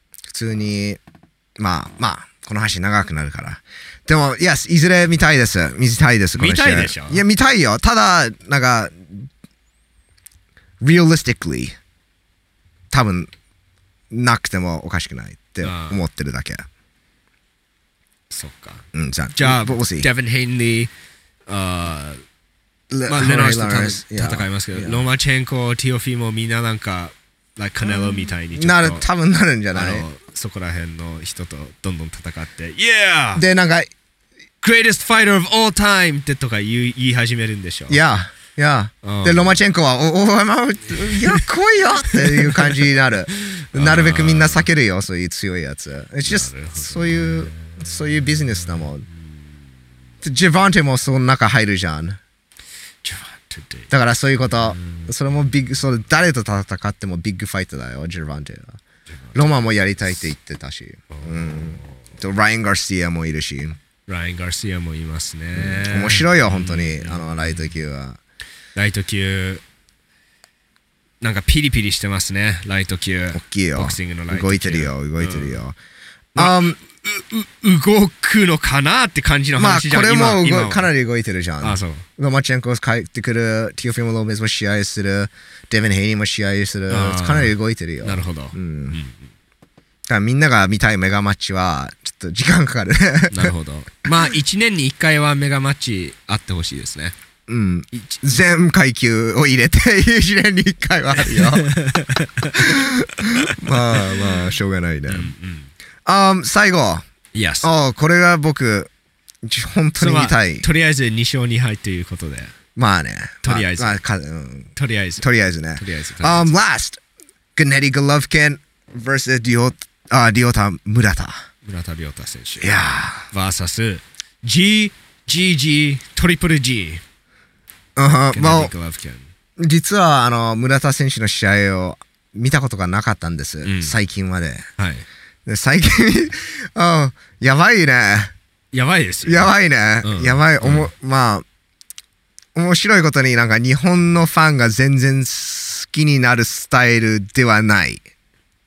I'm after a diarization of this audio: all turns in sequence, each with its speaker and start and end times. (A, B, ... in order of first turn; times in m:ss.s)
0:00.3-0:01.0 A
0:01.6-0:09.3 A
0:06.4-0:07.2 B
0:10.8-0:11.7 A
0:12.9-0:13.3 A
0:14.1-0:16.6 A
0:15.6-0:16.0 B
0:18.3-0:18.8 B
0:18.9-0:20.0 A
0:19.4-0:20.9 B
0:21.5-0:22.2 B
0:22.9-0:25.0 A
0:23.1-0:29.1 B
0:27.8-0:30.0 A
0:29.7-0:33.4 B
0:33.4-0:33.9 A
0:34.6-0:38.0 B
0:37.9-0:49.0 A
0:39.0-0:39.6 B
0:42.1-0:42.8 B
0:43.3-0:44.7 B
0:46.2-0:48.0 B
0:48.5-0:48.8 B
0:50.2-0:52.2 A
0:53.0-0:53.9 B
0:53.9-0:58.8 A
0:54.6-0:55.1 B
0:59.3-1:03.8 A
1:01.1-1:02.0 B
1:04.1-1:07.7 B
1:05.5-1:08.2 A
1:08.7-1:09.6 B
1:11.2-1:15.6 B
1:13.3-1:15.8 A
1:16.3-1:16.8 A
1:16.4-1:20.9 B
1:19.6-1:29.0 A
1:21.6-1:22.0 B
1:26.9-1:29.3 B
1:30.1-1:33.5 A
1:33.3-1:37.1 B
1:37.5-1:41.7 A
1:37.9-1:38.2 B
1:41.2-1:44.1 B
1:42.5-1:45.3 A
1:45.1-1:45.7 B
1:46.0-1:47.0 A
1:47.3-1:47.7 B
1:47.6-1:48.9 A
1:49.4-1:50.6 A
1:50.0-1:52.5 B
1:52.8-1:57.0 A
1:53.4-1:54.0 B
1:54.8-1:55.2 B
1:55.8-1:56.5 B
1:57.6-2:01.4 A
2:01.6-2:02.8 B
2:02.6-2:03.3 A
2:03.3-2:07.0 B
2:08.0-2:08.7 A
2:08.3-2:09.3 B
2:09.6-2:14.7 A
2:13.6-2:14.0 B
2:14.8-2:15.0 B
2:15.4-2:18.3 A
2:18.7-2:19.5 B
2:19.2-2:21.4 A
2:20.0-2:20.9 B
2:22.5-2:28.0 A